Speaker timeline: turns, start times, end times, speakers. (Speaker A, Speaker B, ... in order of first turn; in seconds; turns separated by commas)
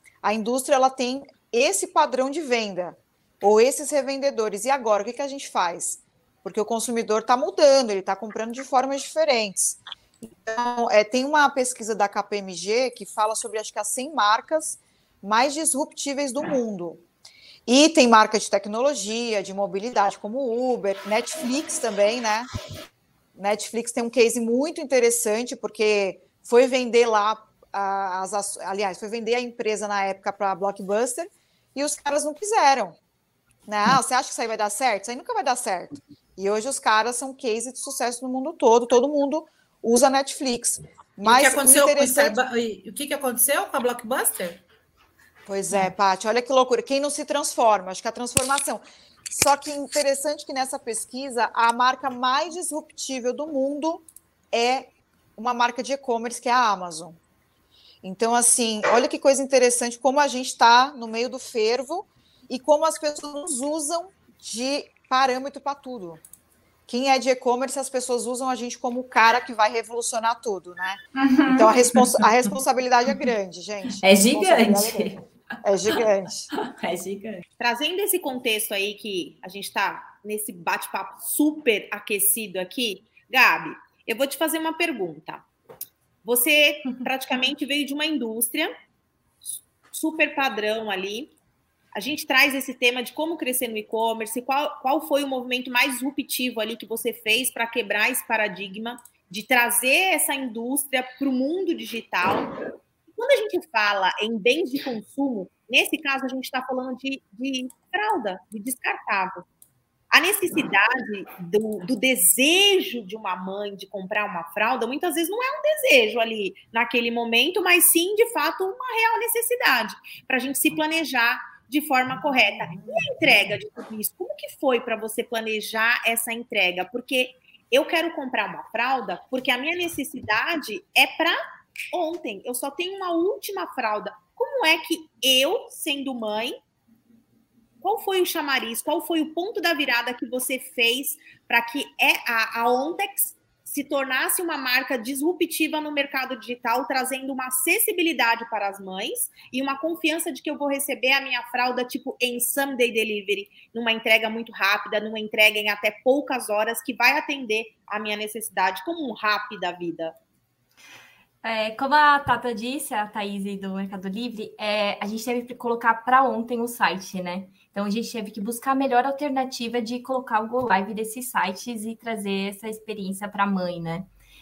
Speaker A: 0.2-17.0, Speaker A: 17.7-22.5, Speaker A: 23.4-33.0, Speaker A: 33.7-42.4, Speaker B: 41.2-44.6, Speaker A: 45.5-57.2, Speaker A: 58.0-66.2, Speaker A: 66.9-75.1, Speaker C: 71.2-72.3, Speaker C: 74.0-75.3, Speaker A: 75.6-76.5, Speaker C: 76.5-77.4, Speaker D: 77.6-85.5, Speaker D: 86.2-88.7, Speaker D: 89.9-91.3, Speaker D: 92.0-102.6, Speaker D: 103.2-109.4, Speaker D: 110.1-131.4, Speaker D: 131.9-136.6, Speaker D: 137.8-160.2, Speaker E: 161.4-174.1